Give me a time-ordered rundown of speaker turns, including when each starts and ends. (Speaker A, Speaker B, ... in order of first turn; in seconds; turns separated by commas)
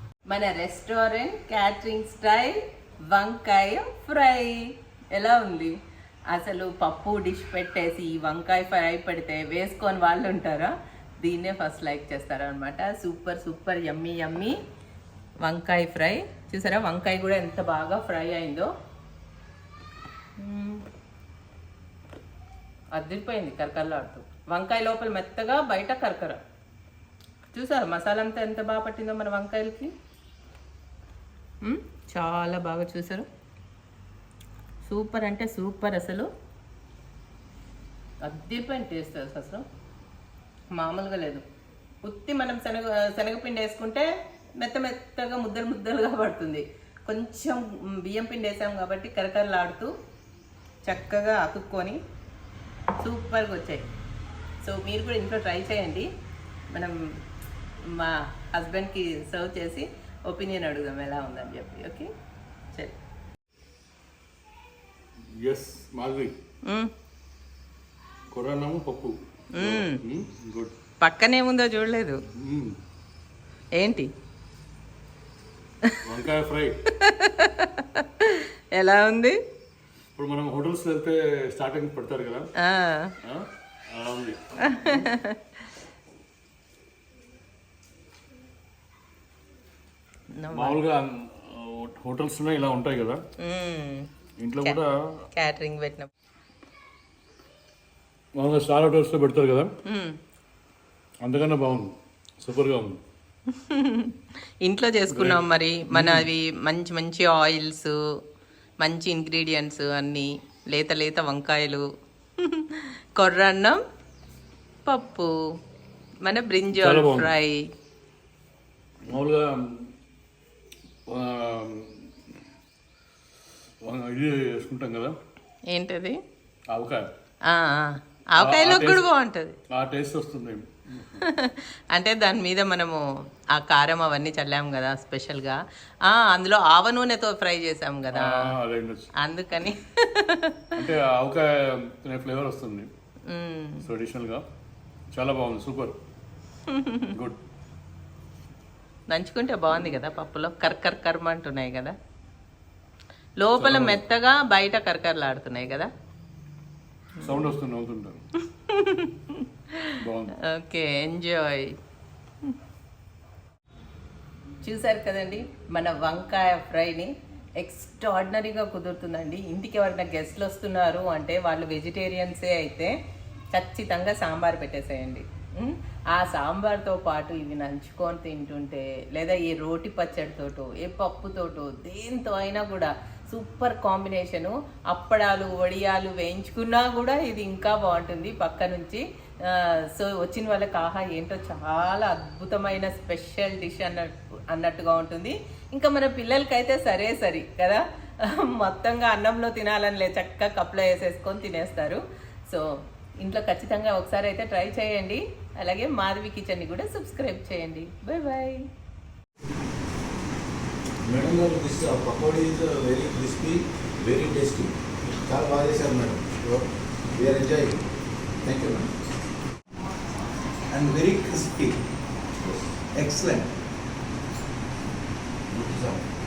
Speaker A: 0.3-5.8, Speaker A: 6.3-14.6, Speaker A: 15.4-18.7, Speaker A: 20.4-20.8, Speaker A: 22.9-26.4, Speaker A: 27.5-29.9, Speaker A: 31.6-33.3, Speaker A: 34.8-36.3, Speaker A: 38.2-39.6, Speaker A: 40.7-41.4, Speaker A: 42.0-49.9, Speaker A: 50.9-52.0, Speaker A: 53.0-53.9, Speaker A: 54.6-56.1, Speaker A: 56.7-57.2, Speaker A: 57.8-62.1, Speaker B: 65.3-66.3, Speaker A: 66.6-66.9, Speaker B: 68.3-70.7, Speaker A: 69.5-70.0, Speaker A: 71.0-72.2, Speaker B: 72.3-72.8, Speaker A: 73.7-74.1, Speaker B: 76.0-76.8, Speaker A: 76.9-79.4, Speaker B: 80.2-82.5, Speaker A: 82.6-83.2, Speaker B: 83.2-85.1, Speaker A: 84.6-85.6, Speaker A: 90.3-90.8, Speaker B: 90.5-93.2, Speaker A: 93.4-94.1, Speaker B: 94.4-95.2, Speaker A: 95.3-96.1, Speaker B: 98.4-99.7, Speaker A: 99.8-100.2, Speaker B: 101.2-103.0, Speaker A: 103.5-108.0, Speaker B: 105.1-106.2, Speaker A: 108.8-113.8, Speaker A: 114.8-115.5, Speaker A: 116.2-117.7, Speaker B: 116.7-117.3, Speaker B: 119.1-119.9, Speaker B: 121.1-122.1, Speaker B: 123.8-125.2, Speaker A: 125.7-126.2, Speaker B: 126.7-127.1, Speaker A: 127.5-129.6, Speaker B: 128.4-129.0, Speaker B: 129.7-131.2, Speaker A: 131.2-138.5, Speaker B: 138.1-139.1, Speaker A: 139.2-140.7, Speaker B: 140.8-142.9, Speaker A: 143.3-143.9, Speaker B: 143.8-144.4, Speaker B: 145.1-146.0, Speaker A: 146.7-147.1, Speaker B: 147.1-147.4, Speaker A: 149.1-151.9, Speaker A: 153.4-155.9, Speaker B: 153.6-154.0, Speaker A: 157.2-157.5, Speaker B: 157.2-158.2, Speaker A: 158.4-161.8, Speaker B: 160.0-160.3, Speaker A: 164.6-172.9, Speaker A: 173.5-208.7, Speaker C: 211.0-217.8, Speaker C: 218.4-218.9, Speaker C: 220.7-221.8, Speaker C: 222.4-223.5, Speaker C: 225.5-226.1